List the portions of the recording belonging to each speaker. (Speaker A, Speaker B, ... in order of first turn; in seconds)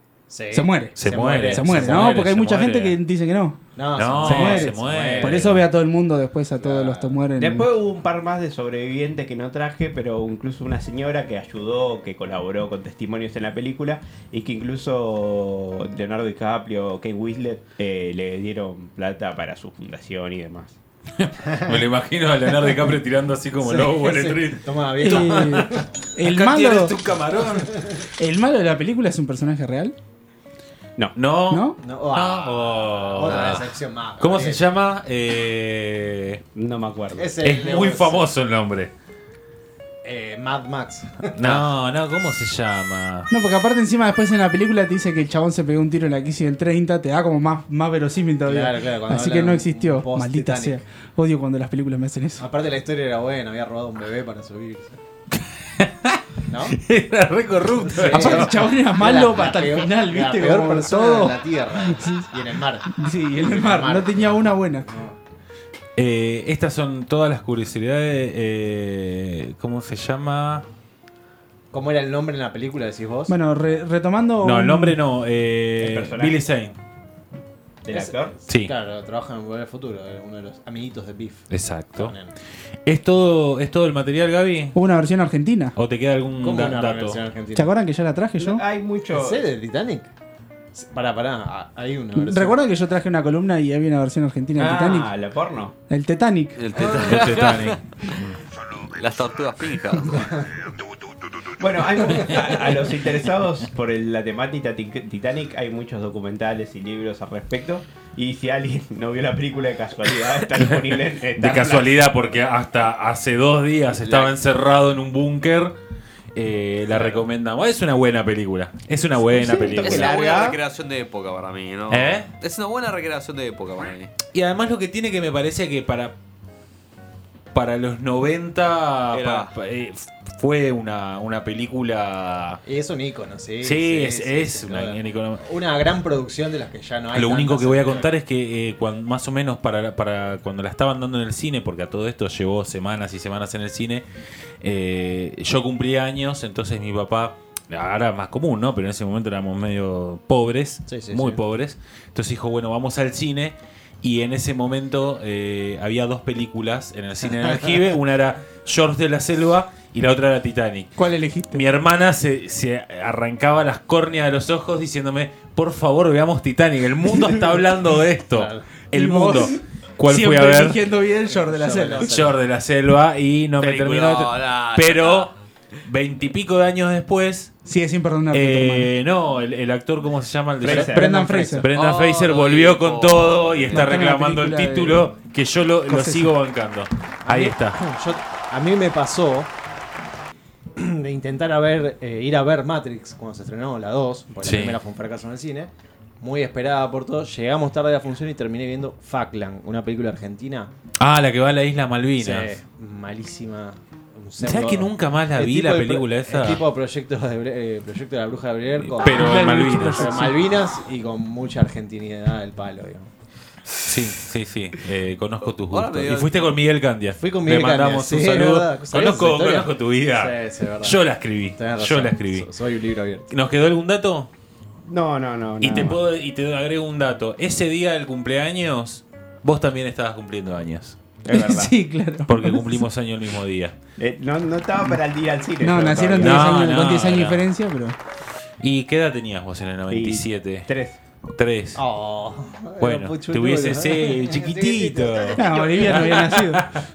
Speaker A: 0.3-2.2, 3.8-5.6, 6.6-7.2, 21.4-21.9, 23.6-25.9, 27.4-27.9, 31.8-34.6, 37.1-38.3, 40.0-41.7, 48.5-50.8, 52.4-55.0, 56.5-56.8, 57.8-65.2, 71.7-73.3, 77.9-82.3, 86.4-87.7, 89.1-90.1, 90.7-92.6, 96.8-97.6, 113.9-114.3, 116.9-117.2, 132.7-138.1, 150.9-151.4, 168.3-168.7, 171.3-172.4, 180.9-181.6, 187.2-189.5, 190.8-200.7, 202.2-213.1, 217.2-223.3, 241.8-246.4
Speaker B: 0.5-3.6, 4.2-7.7, 25.0-27.0, 28.2-29.9, 31.5-31.8, 43.3-52.5, 58.1-62.2, 62.9-64.9, 73.3-75.0, 84.7-85.8, 87.5-88.6, 92.2-95.1, 95.9-96.6, 161.0-161.7, 168.9-172.1, 177.7-178.9, 180.6-181.7, 183.7-185.1, 185.9-186.4, 209.1-210.4, 231.3-232.9, 235.6-238.0, 245.3-246.7
Speaker C: 1.0-3.0, 4.0-5.6, 21.2-27.8, 31.2-36.4, 37.4-38.9, 41.4-43.3, 55.4-58.6, 66.0-70.7, 74.4-76.8, 78.5-78.7, 81.5-82.2, 82.8-84.8, 85.8-87.2, 96.8-98.4, 110.6-115.7, 116.3-120.4, 121.9-122.3, 124.3-126.2, 127.5-132.6, 133.6-135.4, 137.1-144.1, 144.6-160.9, 161.5-170.8, 172.0-175.3, 175.8-177.5, 178.3-187.8, 194.4-194.8, 201.0-202.5, 204.4-206.6, 208.8-210.2, 213.8-222.5, 223.3-224.3, 225.6-231.0, 232.3-233.8, 236.2-237.5, 238.6-240.7, 241.3-241.8, 242.8-246.8
Speaker D: 7.4-20.8, 36.5-37.4, 75.8-76.4, 77.8-78.3, 88.4-89.5, 94.6-95.8, 101.6-111.9, 119.2-120.6, 180.6-181.1, 224.9-226.0, 231.2-231.7, 234.0-236.6, 239.9-241.0
Speaker E: 96.6-98.2, 98.7-100.5, 119.8-124.2, 129.1-129.5, 173.6-175.3, 181.7-183.9, 215.5-216.6